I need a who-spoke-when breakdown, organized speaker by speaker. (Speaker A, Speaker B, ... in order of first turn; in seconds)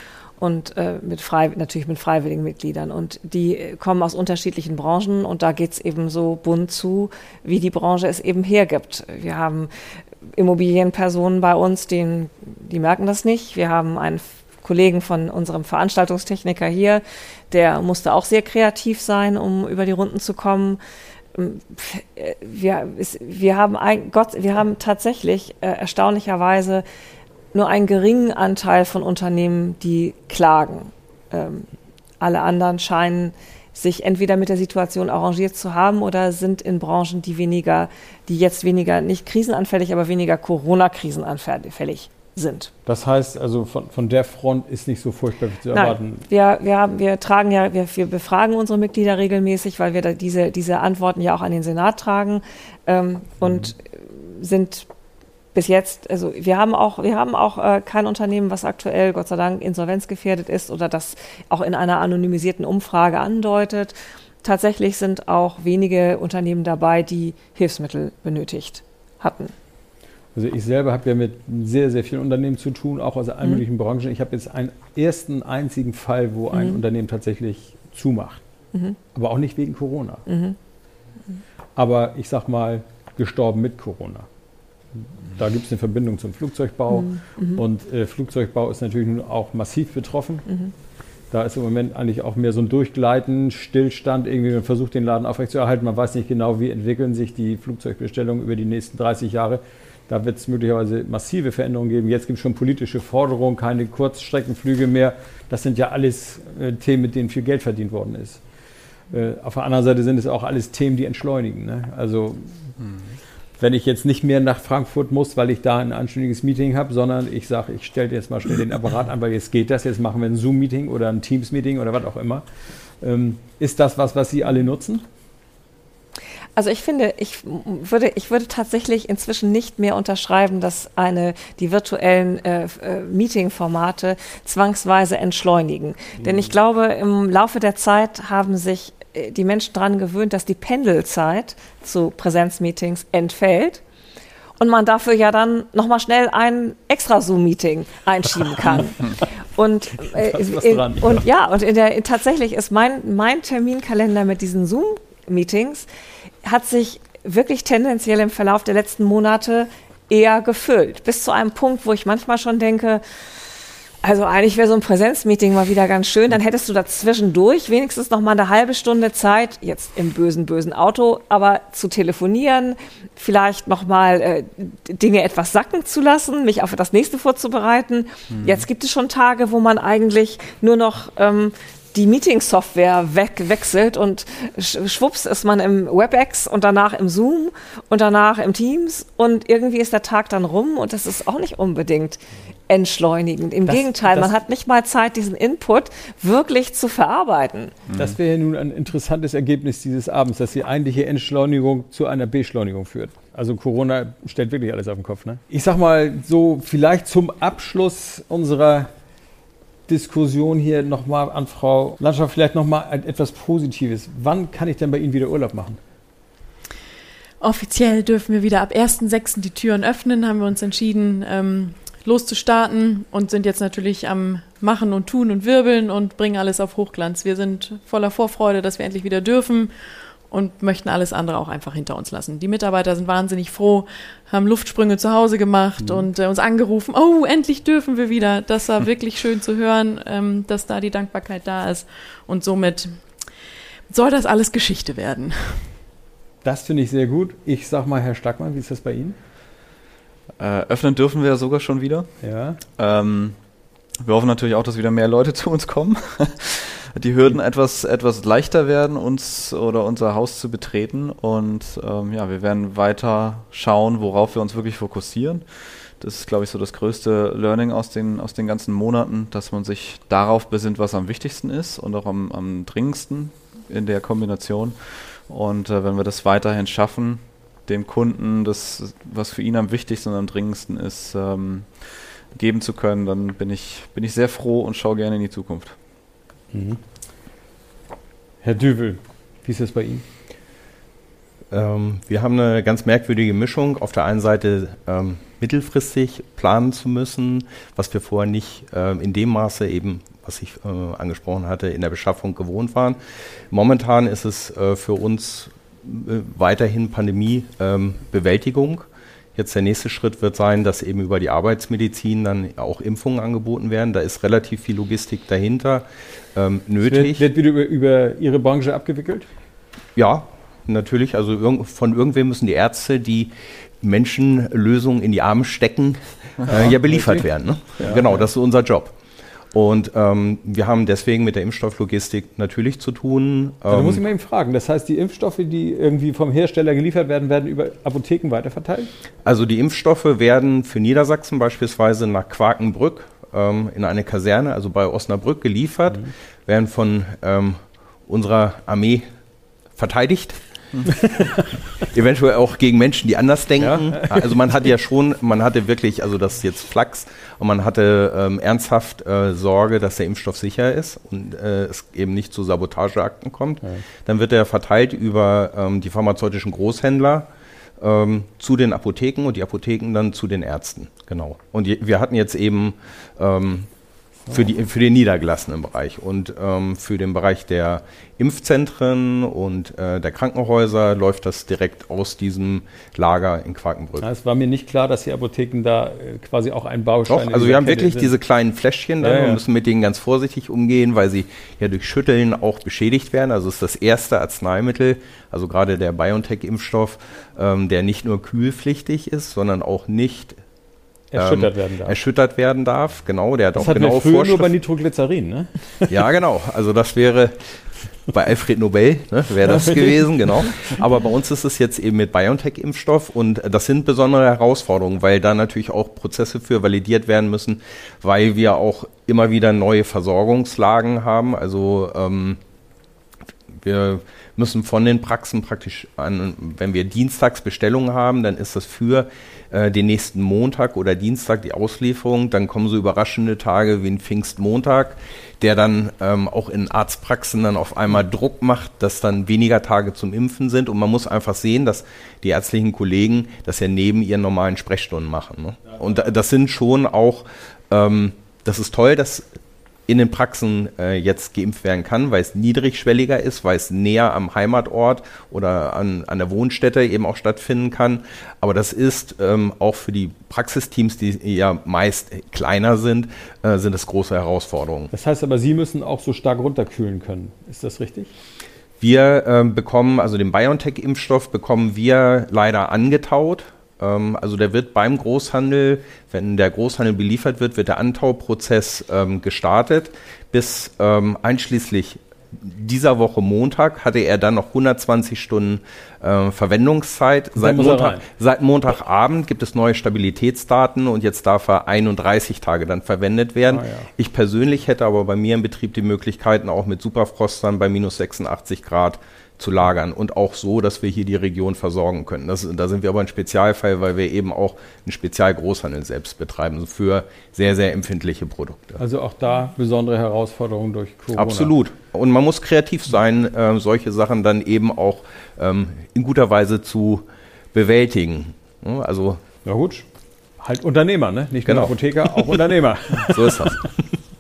Speaker A: 0.4-9.7, 10.3-20.8, 21.3-26.8, 27.5-42.7, 45.7-54.9, 55.5-69.5, 76.5-76.8, 80.3-80.5, 86.9-87.6, 90.5-90.7, 126.5-143.8, 144.6-155.9, 156.4-163.0, 164.0-197.8
Speaker B: 42.8-46.2, 70.3-78.4, 79.1-80.2, 81.8-84.3, 85.0-90.5, 91.3-108.4, 109.1-112.5, 113.6-122.5, 123.0-125.0, 150.1-151.2, 193.7-194.3, 197.9-208.9, 209.9-215.8, 235.8-236.1, 246.4-249.2, 252.2-252.6, 286.5-286.8, 288.4-290.0, 316.8-319.3, 326.5-328.2, 333.7-338.9, 353.6-354.3, 384.0-388.1, 389.0-389.4, 401.1-402.0, 403.6-406.0, 409.4-410.7, 464.9-468.1, 487.4-488.1, 493.5-493.9, 508.8-511.5, 519.5-519.8, 520.4-523.7
Speaker C: 112.8-113.2, 178.3-178.7, 197.9-198.2, 250.4-252.2, 252.8-253.4, 254.0-265.4, 266.0-285.8
Speaker D: 217.4-243.3, 243.9-245.7
Speaker E: 291.5-317.2, 319.9-328.9, 329.5-334.0, 339.2-349.1, 349.7-350.4, 351.8-373.7, 374.3-384.1, 387.1-400.4, 401.1-404.5, 405.9-422.4, 423.6-449.3, 449.9-464.9, 468.8-508.8, 511.1-519.2, 521.5-522.4, 523.0-523.8